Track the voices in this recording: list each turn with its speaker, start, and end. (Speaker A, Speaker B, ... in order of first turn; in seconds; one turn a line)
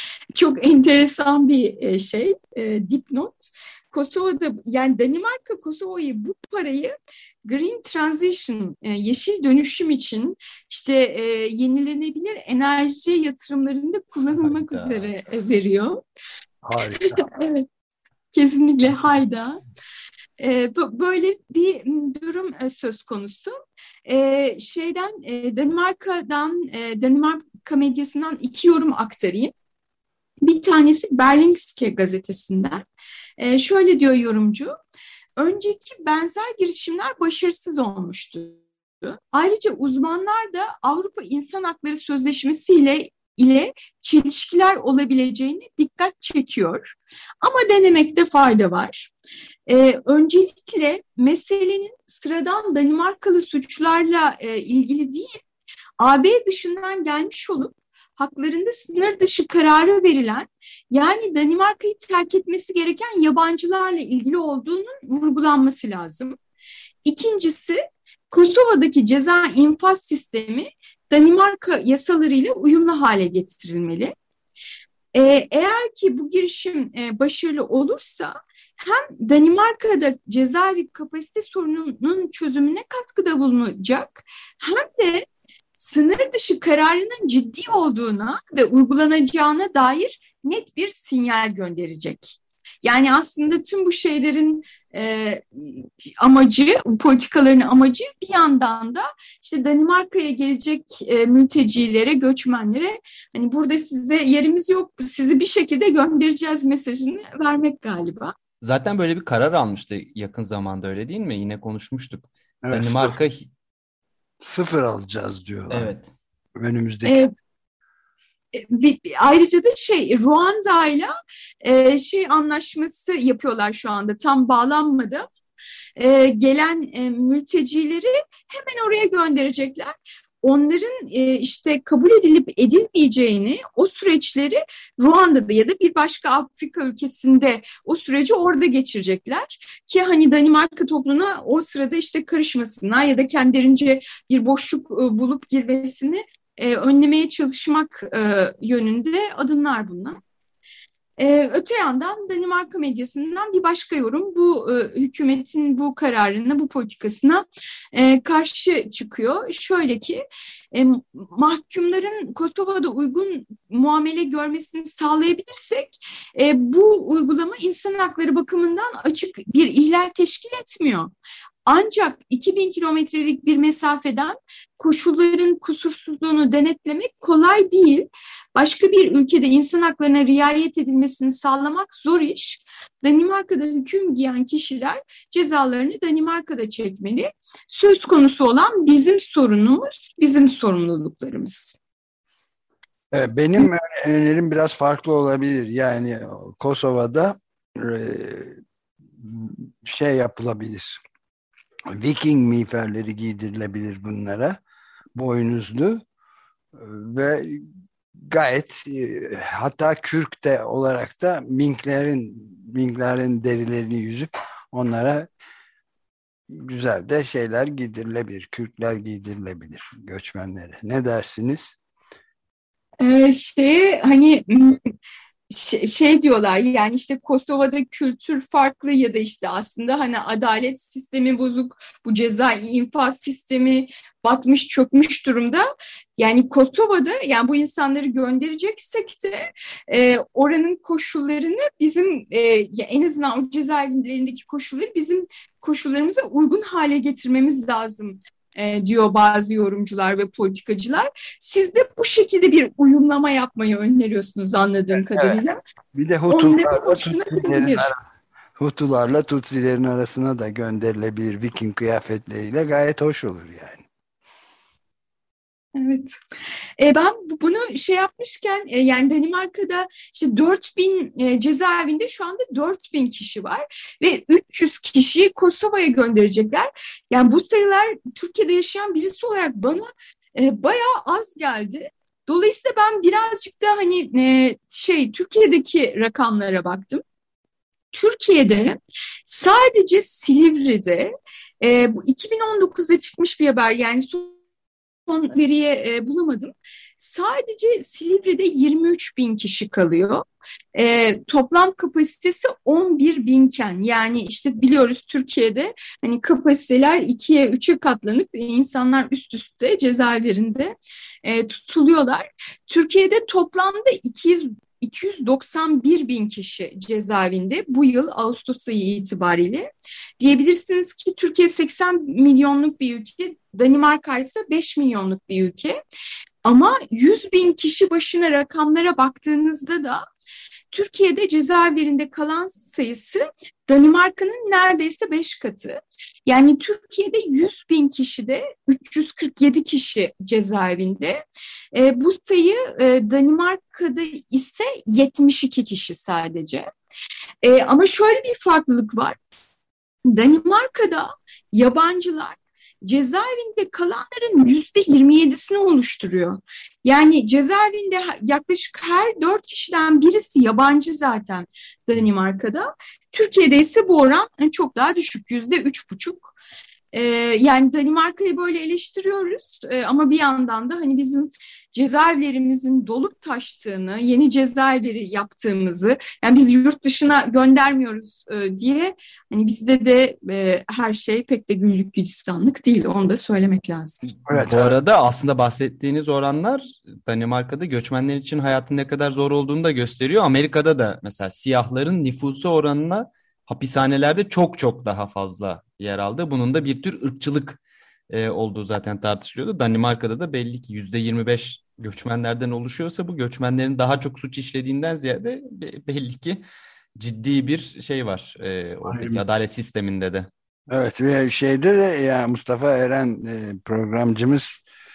Speaker A: 0.3-6.9
Speaker A: 7.5-16.0
Speaker B: 16.6-17.2
Speaker A: 17.0-17.6
Speaker A: 18.3-19.6
Speaker A: 20.4-23.5
Speaker A: 24.1-29.5
Speaker A: 30.4-32.8
Speaker A: 33.4-34.8
Speaker A: 35.4-49.1
Speaker A: 49.7-55.4
Speaker A: 56.0-66.4
Speaker A: 67.0-74.1
Speaker A: 75.1-85.2
Speaker A: 85.8-108.3
Speaker C: 108.6-113.5
Speaker B: 112.6-113.2
Speaker B: 114.4-115.9
Speaker C: 115.7-116.1
Speaker B: 116.6-117.2
Speaker A: 117.0-117.3
Speaker A: 118.5-125.2
Speaker A: 126.0-150.2
Speaker A: 151.2-171.1
Speaker A: 171.7-191.8
Speaker B: 193.1-198.6
Speaker B: 199.2-201.0
Speaker B: 201.9-204.6
Speaker B: 205.2-206.0
Speaker B: 206.8-215.3
Speaker B: 216.5-221.8
Speaker A: 223.0-224.8
Speaker A: 225.5-235.7
Speaker A: 236.2-255.6
Speaker B: 255.9-258.0
Speaker A: 256.3-257.9
Speaker B: 258.6-263.8
Speaker A: 265.8-266.1
Speaker A: 266.8-287.0
Speaker A: 287.9-294.4
Speaker A: 295.1-325.8
Speaker A: 326.4-330.0
Speaker A: 330.7-341.2
Speaker A: 341.7-346.7
Speaker A: 347.4-349.2
Speaker A: 350.0-366.3
Speaker A: 366.9-384.0
Speaker B: 384.2-384.8
Speaker C: 384.3-406.4
Speaker C: 407.0-410.3
Speaker B: 408.9-409.2
Speaker B: 410.7-414.6